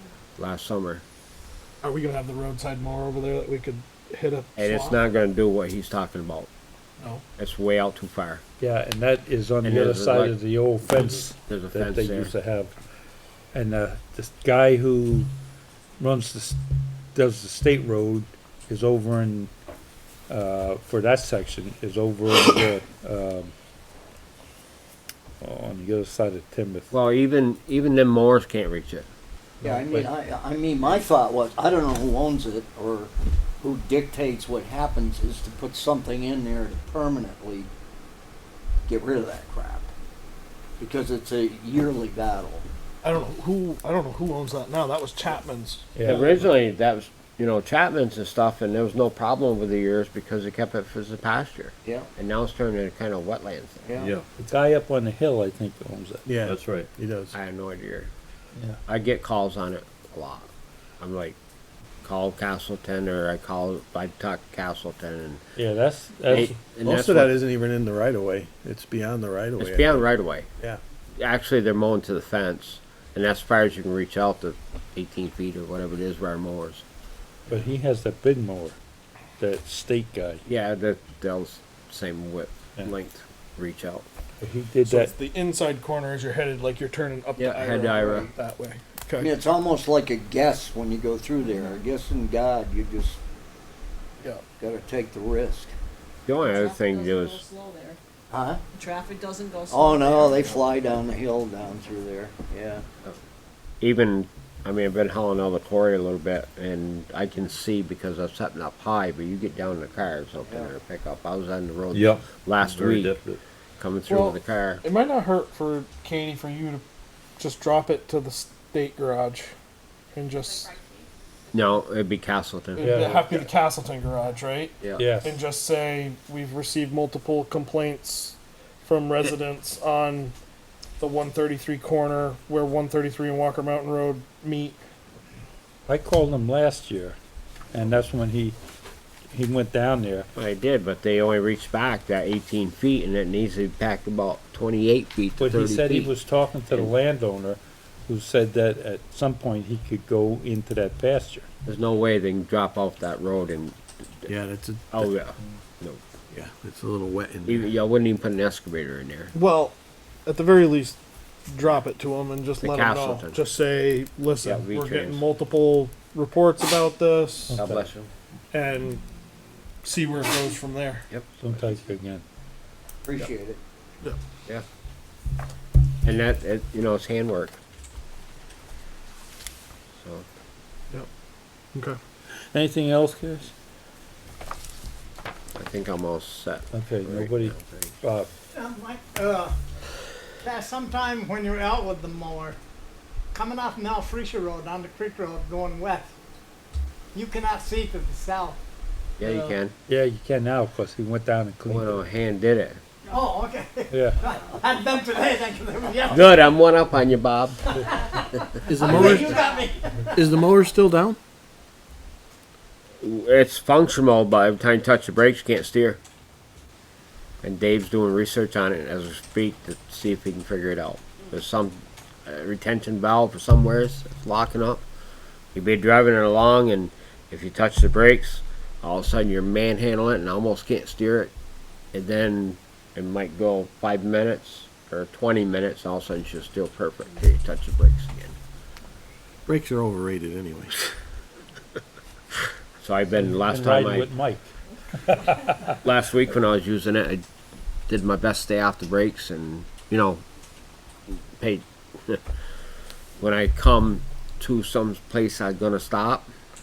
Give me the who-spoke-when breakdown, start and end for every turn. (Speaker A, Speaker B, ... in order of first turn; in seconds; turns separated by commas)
Speaker A: 0.4-1.0, Speaker B: 1.8-5.0, Speaker A: 4.5-6.5, Speaker A: 7.4-8.4, Speaker C: 8.6-12.7, Speaker A: 9.6-10.3, Speaker A: 11.4-12.3, Speaker C: 13.5-15.3, Speaker C: 16.0-16.6, Speaker C: 17.1-19.5, Speaker C: 20.3-23.5, Speaker C: 25.4-26.9, Speaker A: 26.9-29.1, Speaker C: 29.6-30.1, Speaker D: 29.6-37.7, Speaker D: 38.9-39.9, Speaker D: 40.8-42.6, Speaker B: 43.0-45.9, Speaker C: 46.0-46.3, Speaker A: 46.0-53.8, Speaker D: 51.8-52.1, Speaker D: 53.8-54.1, Speaker E: 54.0-54.2, Speaker C: 54.4-56.3, Speaker F: 56.2-57.3, Speaker E: 56.4-56.9, Speaker A: 57.3-58.1, Speaker A: 58.9-60.5, Speaker A: 61.0-61.4, Speaker A: 62.0-65.4, Speaker C: 65.6-66.5, Speaker A: 66.3-67.4, Speaker F: 66.8-70.0, Speaker A: 69.6-70.5, Speaker A: 71.2-76.8, Speaker C: 77.5-78.8, Speaker C: 79.4-80.4, Speaker A: 80.5-84.0, Speaker C: 84.4-85.1, Speaker B: 84.8-89.3, Speaker A: 87.4-88.3, Speaker D: 89.2-93.2, Speaker D: 94.6-95.7, Speaker A: 96.3-97.4, Speaker G: 96.4-98.0, Speaker D: 98.3-98.6, Speaker G: 98.7-100.7, Speaker D: 99.7-102.8, Speaker A: 103.8-113.2, Speaker D: 110.4-110.7, Speaker E: 111.9-113.4, Speaker A: 113.8-114.8, Speaker B: 114.1-116.8, Speaker B: 117.4-119.5, Speaker B: 120.1-120.7, Speaker G: 120.5-121.0, Speaker A: 121.5-123.5, Speaker B: 122.8-130.3, Speaker C: 122.8-123.3, Speaker C: 125.0-125.4, Speaker B: 131.0-134.8, Speaker C: 135.9-137.2, Speaker C: 137.7-138.6, Speaker C: 139.3-140.3, Speaker A: 140.3-146.1, Speaker C: 145.4-151.5, Speaker A: 151.7-154.3, Speaker F: 154.3-155.1, Speaker A: 154.9-156.0, Speaker F: 156.3-157.7, Speaker A: 157.4-159.3, Speaker B: 159.3-159.7, Speaker B: 160.2-161.0, Speaker B: 161.5-167.6, Speaker A: 162.6-163.4, Speaker A: 164.4-165.2, Speaker C: 167.5-167.9, Speaker A: 167.6-168.1, Speaker B: 168.5-169.0, Speaker B: 169.8-171.0, Speaker C: 171.4-172.2, Speaker D: 173.0-173.6, Speaker A: 176.0-177.6, Speaker A: 180.0-180.2, Speaker C: 182.3-183.5, Speaker A: 185.5-187.9, Speaker C: 186.7-188.3, Speaker H: 188.5-189.5, Speaker H: 190.4-192.6, Speaker H: 193.3-196.1, Speaker H: 197.1-198.6, Speaker A: 199.2-199.7, Speaker C: 199.9-202.0, Speaker A: 201.7-202.8, Speaker H: 203.1-206.4, Speaker C: 203.9-204.2, Speaker A: 206.1-207.7, Speaker H: 207.8-208.2, Speaker H: 208.7-210.3, Speaker F: 208.7-209.3, Speaker F: 210.2-211.2, Speaker A: 213.0-216.0, Speaker A: 217.4-224.8, Speaker A: 225.5-231.3, Speaker A: 231.9-238.3, Speaker F: 239.5-240.7, Speaker A: 242.8-244.1, Speaker C: 243.2-244.5, Speaker C: 245.0-245.7, Speaker A: 245.8-247.2, Speaker A: 247.9-250.2, Speaker A: 251.1-252.2, Speaker A: 253.2-256.3